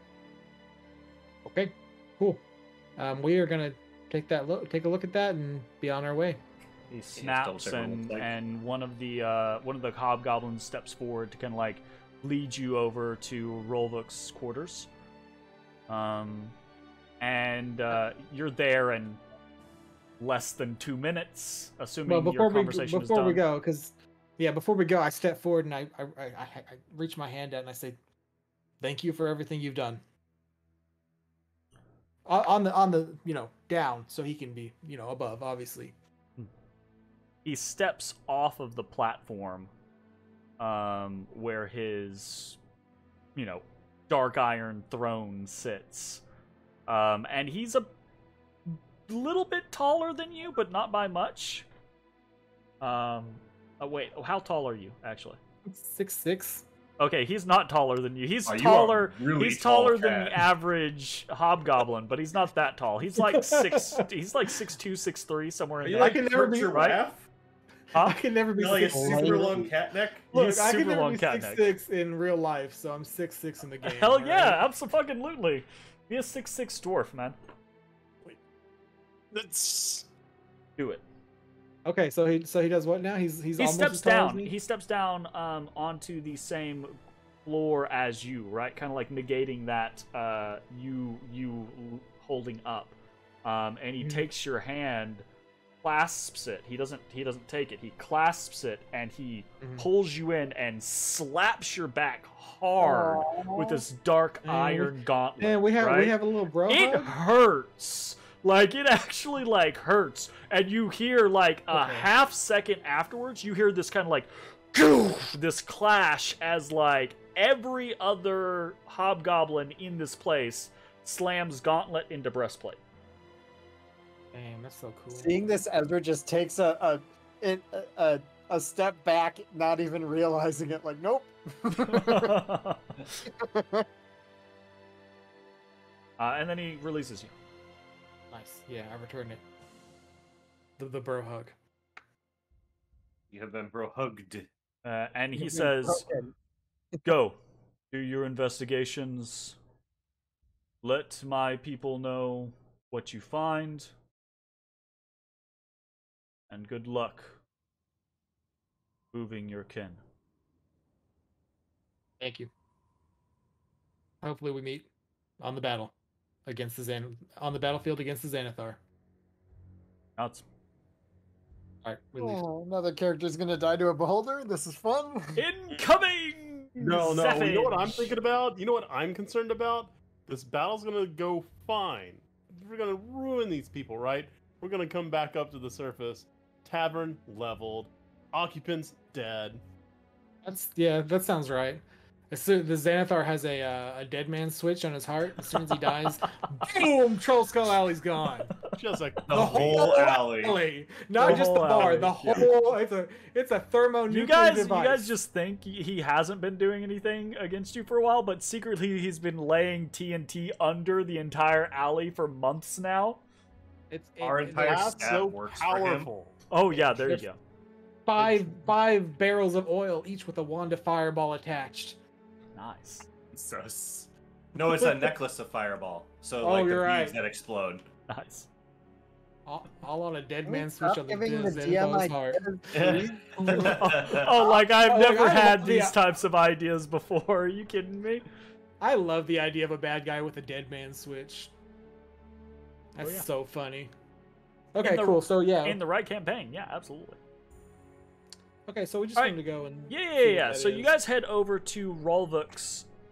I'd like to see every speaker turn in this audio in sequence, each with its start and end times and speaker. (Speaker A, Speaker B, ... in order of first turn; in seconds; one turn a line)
Speaker A: 1.4-2.4
Speaker A: 3.0-6.4
Speaker B: 6.9-14.9
Speaker C: 7.2-8.3
Speaker B: 15.9-16.6
Speaker B: 17.2-19.2
Speaker B: 20.2-23.4
Speaker A: 22.1-28.0
Speaker A: 28.8-30.0
Speaker A: 32.2-36.0
Speaker B: 37.5-39.7
Speaker B: 40.6-42.6
Speaker B: 43.4-46.2
Speaker B: 46.9-47.9
Speaker B: 48.7-51.7
Speaker B: 52.8-55.4
Speaker A: 55.7-56.7
Speaker B: 57.0-67.0
Speaker C: 58.5-60.5
Speaker A: 63.2-64.0
Speaker C: 65.8-67.3
Speaker A: 66.0-66.7
Speaker B: 67.9-68.2
Speaker A: 68.0-69.7
Speaker C: 68.6-70.3
Speaker B: 70.3-71.8
Speaker A: 70.3-74.6
Speaker B: 73.8-77.4
Speaker D: 79.3-80.1
Speaker B: 80.8-81.0
Speaker A: 81.8-84.5
Speaker B: 83.6-95.2
Speaker B: 95.8-106.2
Speaker A: 99.6-99.9
Speaker E: 102.8-103.8
Speaker A: 104.4-107.1
Speaker B: 106.7-122.8
Speaker A: 111.7-112.1
Speaker A: 124.3-125.3
Speaker E: 125.1-132.4
Speaker B: 131.9-133.2
Speaker E: 133.2-133.9
Speaker B: 136.2-137.3
Speaker A: 138.3-139.4
Speaker A: 140.8-141.6
Speaker C: 143.3-144.5
Speaker B: 144.8-146.1
Speaker E: 145.4-146.3
Speaker B: 147.0-147.4
Speaker B: 147.9-149.6
Speaker B: 150.8-153.9
Speaker B: 156.5-157.4
Speaker B: 159.1-160.0
Speaker A: 162.2-162.5
Speaker A: 164.2-164.9
Speaker A: 165.4-165.9
Speaker A: 166.4-168.8
Speaker B: 170.2-170.4
Speaker A: 171.8-172.4
Speaker E: 172.2-175.4
Speaker B: 175.4-178.1
Speaker D: 176.8-189.6
Speaker A: 190.4-198.6
Speaker B: 195.6-196.2
Speaker D: 198.7-200.0
Speaker C: 199.3-200.6
Speaker A: 199.3-205.1
Speaker B: 201.2-202.5
Speaker C: 201.8-202.4
Speaker B: 204.1-213.2
Speaker A: 213.9-215.2
Speaker C: 214.2-216.1
Speaker D: 214.6-216.4
Speaker B: 216.5-217.4
Speaker A: 216.8-217.2
Speaker A: 218.1-222.0
Speaker B: 222.6-223.1
Speaker C: 223.3-227.8
Speaker A: 224.8-225.1
Speaker A: 226.4-227.2
Speaker B: 228.1-228.5
Speaker A: 229.5-233.8
Speaker E: 230.5-233.7
Speaker C: 232.7-234.5
Speaker B: 233.8-238.2
Speaker A: 234.8-236.0
Speaker A: 238.8-241.5
Speaker A: 243.0-243.9
Speaker B: 243.0-243.3
Speaker A: 244.7-245.8
Speaker B: 244.8-247.2
Speaker A: 248.7-250.9
Speaker B: 249.9-252.9